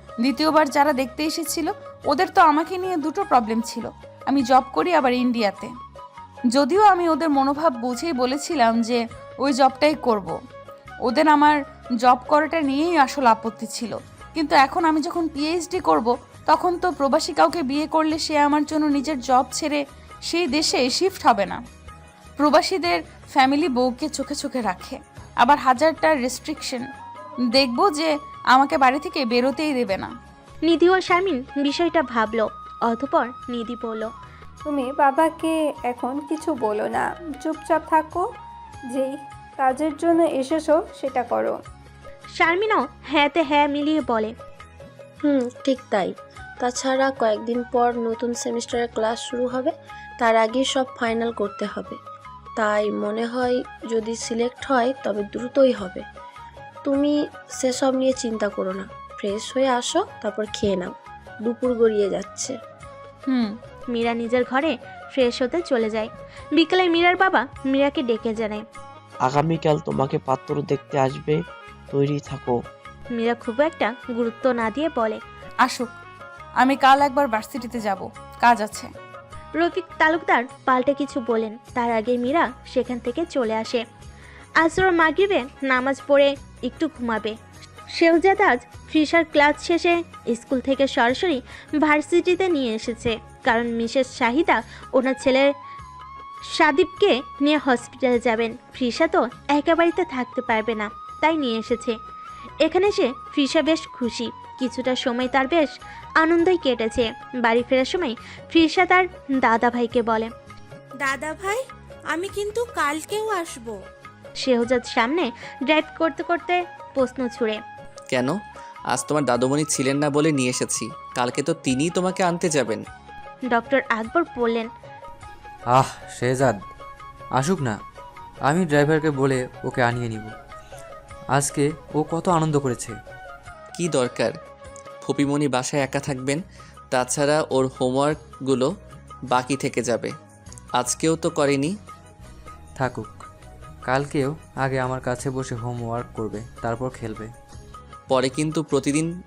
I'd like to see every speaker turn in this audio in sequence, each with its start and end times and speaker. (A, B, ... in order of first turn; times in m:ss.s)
0:00.2-0:05.7 A
0:06.5-0:10.4 A
0:11.0-0:21.6 A
0:22.4-0:26.8 A
0:27.5-0:30.1 A
0:30.6-0:34.1 B
0:34.6-0:38.3 C
0:38.9-0:41.6 C
0:42.4-0:44.3 B
0:45.2-0:52.0 D
0:52.6-0:56.0 D
0:56.8-1:00.9 D
1:01.4-1:02.5 D
1:03.9-1:08.6 B
1:09.2-1:12.6 E
1:13.1-1:15.2 B
1:15.6-1:15.9 A
1:16.6-1:18.9 A
1:19.6-1:23.8 B
1:24.6-1:27.4 B
1:27.9-1:35.5 B
1:36.4-1:42.0 B
1:42.6-1:50.3 B
1:51.0-1:51.6 F
1:52.1-1:53.7 F
1:54.4-1:57.6 B
1:58.9-2:02.8 G
2:03.5-2:04.7 B
2:05.7-2:06.6 H
2:07.4-2:07.8 H
2:08.4-2:10.3 H
2:11.3-2:12.9 H
2:13.8-2:14.3 G
2:15.0-2:16.4 G
2:16.9-2:18.6 G
2:19.3-2:20.1 G
2:20.8-2:21.7 G
2:22.8-2:23.1 H
2:23.8-2:27.3 H
2:28.1-2:29.0 G